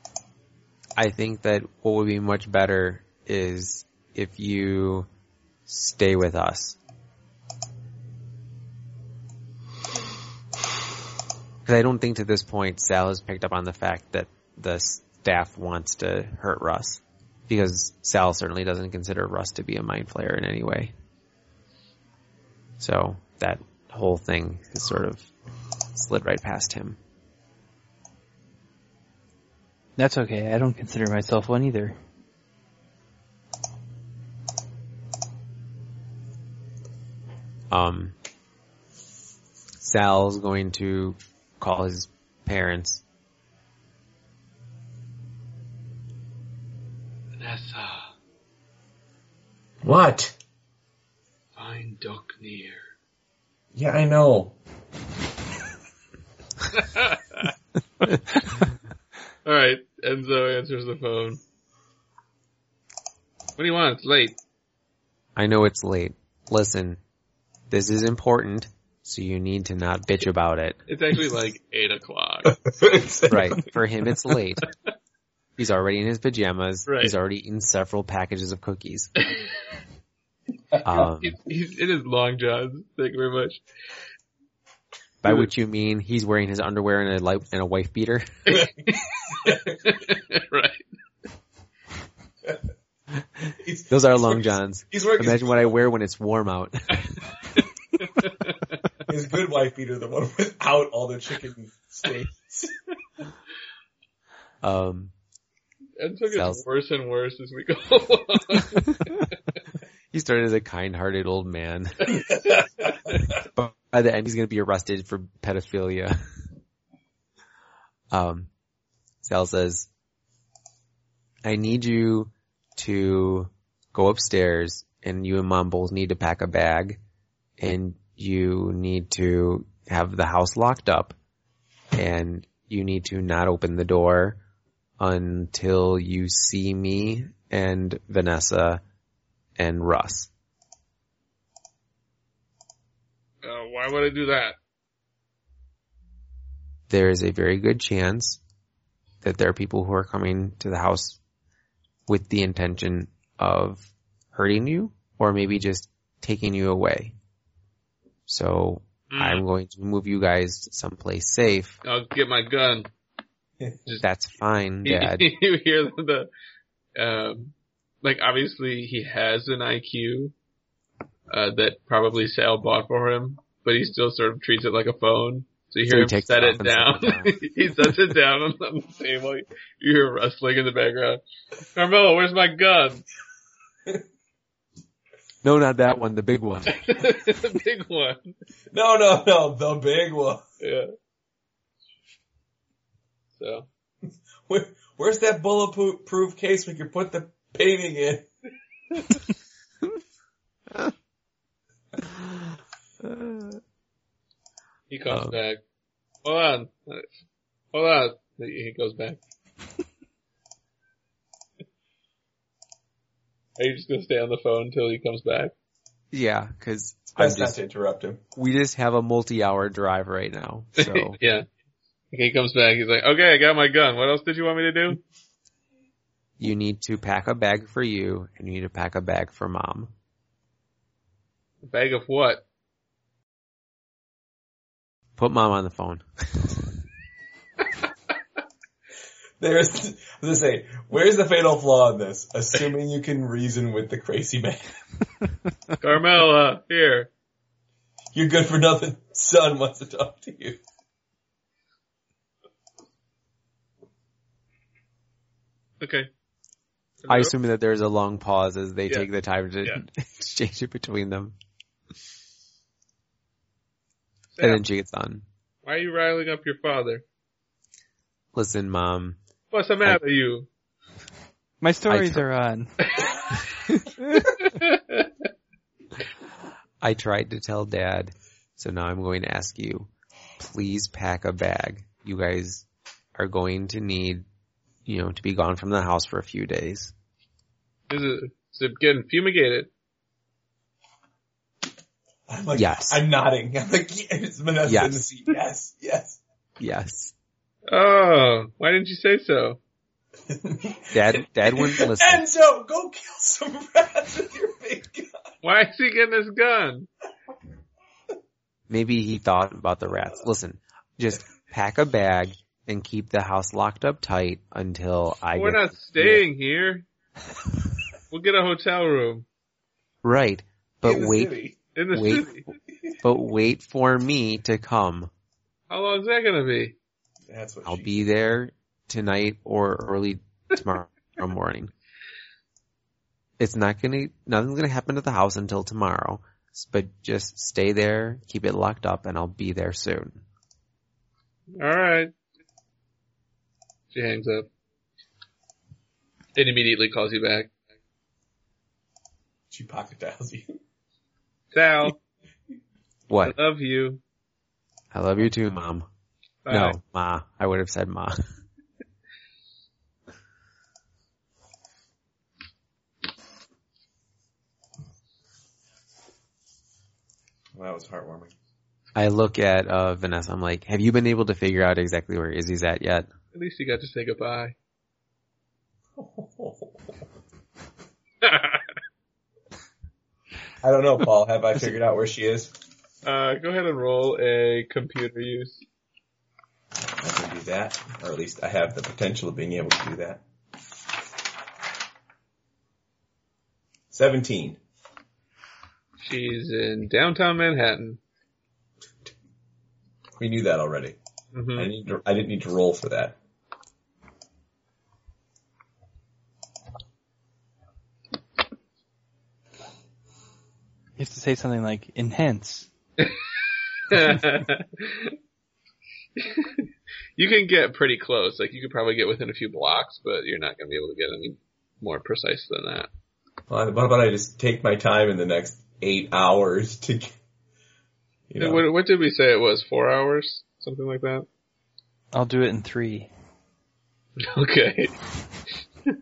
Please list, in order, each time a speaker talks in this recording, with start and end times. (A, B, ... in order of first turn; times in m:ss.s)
0:01.0-0:05.1 A
0:05.6-0:06.8 A
0:11.6-0:20.9 A
0:22.8-0:25.3 A
0:25.9-0:27.0 A
0:30.0-0:32.0 B
0:37.7-0:38.1 A
0:39.8-0:43.0 A
0:47.4-0:48.1 C
0:49.8-0:50.4 D
0:51.6-0:52.9 C
0:53.7-0:54.5 D
0:56.7-0:57.5 C
0:59.4-1:01.4 C
1:03.6-1:04.4 C
1:05.4-1:07.0 A
1:07.7-1:10.8 A
1:10.9-1:12.6 C
1:12.5-1:13.6 D
1:13.3-1:14.6 A
1:15.6-1:19.1 A
1:16.9-1:17.1 C
1:20.8-1:21.4 A
1:21.1-1:23.6 C
1:25.2-1:28.2 A
1:28.5-1:30.8 C
1:33.6-1:35.6 D
1:33.9-1:37.1 A
1:37.6-1:38.8 C
1:39.1-1:42.7 D
1:44.6-1:45.1 A
1:46.0-1:49.2 C
1:46.3-1:46.6 A
1:50.1-1:52.2 A
1:53.4-1:56.2 A
1:58.1-1:58.5 A
1:59.2-1:59.9 A
2:01.4-2:07.0 A
2:07.6-2:11.1 A
2:11.9-2:14.4 A
2:15.0-2:18.8 A
2:19.6-2:20.3 A
2:23.4-2:24.6 C
2:26.9-2:28.4 A
2:29.2-2:31.2 A
2:32.1-2:37.1 A
2:38.3-2:41.8 A
2:39.1-2:39.4 C
2:41.8-2:42.9 C
2:44.0-2:45.3 A
2:44.8-2:46.3 C
2:47.0-2:50.3 C
2:51.3-3:01.2 C
2:55.9-2:57.3 A
3:01.7-3:03.0 C
3:05.4-3:06.8 A
3:06.7-3:08.3 C
3:08.7-3:10.4 D
3:10.6-3:10.9 C
3:13.4-3:13.7 C
3:14.5-3:18.2 D
3:23.0-3:23.6 A
3:24.9-3:25.6 C
3:25.1-3:25.4 A
3:26.2-3:27.1 C
3:27.7-3:29.2 C
3:33.6-3:35.5 C
3:36.1-3:37.6 A
3:37.2-3:38.2 D
3:38.4-3:41.2 A
3:40.8-3:41.4 C
3:42.1-3:45.0 C
3:46.4-3:49.9 A
3:51.6-3:52.4 C
3:55.2-3:56.6 A
3:59.4-4:04.6 D
4:05.8-4:07.1 C
4:08.1-4:10.6 D
4:15.8-4:16.1 C
4:17.0-4:17.3 C
4:17.1-4:21.3 A
4:24.4-4:24.6 C
4:24.4-4:25.2 A
4:25.6-4:27.0 C
4:28.3-4:29.2 A
4:29.5-4:30.5 C
4:31.6-4:32.8 B
4:31.9-4:32.2 A
4:34.4-4:35.0 C
4:36.8-4:44.2 A
4:44.8-4:46.9 A
4:47.9-4:49.7 C
4:52.3-4:56.2 D
4:52.5-4:53.0 A
4:54.6-4:55.0 A
4:56.6-4:57.1 A
4:57.7-4:59.6 C
5:00.3-5:05.1 D
5:00.9-5:02.2 A
5:05.4-5:06.9 C
5:08.7-5:16.2 A
5:15.3-5:16.8 C
5:18.1-5:19.2 C
5:20.0-5:21.3 A
5:20.8-5:21.6 D
5:21.7-5:22.5 C
5:21.9-5:22.5 A
5:23.0-5:25.1 A
5:25.7-5:26.8 C
5:27.3-5:27.9 D
5:27.6-5:31.7 A
5:33.4-5:40.2 A
5:41.6-5:42.1 C
5:43.9-5:44.5 C
5:46.4-5:47.5 C
5:49.5-5:50.6 D
5:51.5-5:52.0 C
5:53.1-5:53.3 A
5:53.2-5:54.0 C
5:54.9-5:55.8 A
5:56.4-5:56.8 C
5:56.5-5:58.2 A
6:07.5-6:08.3 D
6:08.9-6:13.1 A
6:13.3-6:14.5 C
6:16.0-6:16.8 D
6:18.2-6:18.6 C
6:20.6-6:22.5 D
6:23.0-6:25.6 C
6:27.0-6:30.2 D
6:33.9-6:34.6 D
6:36.0-6:38.0 C
6:40.2-6:41.0 D
6:41.3-6:41.7 C
6:41.6-6:43.2 D
6:51.0-6:52.7 B
6:53.9-6:55.1 C
6:56.2-6:56.6 C
6:57.2-7:02.9 C
7:03.5-7:07.1 D
7:08.3-7:08.6 D
7:08.4-7:11.3 C
7:12.1-7:13.1 B
7:14.2-7:14.9 C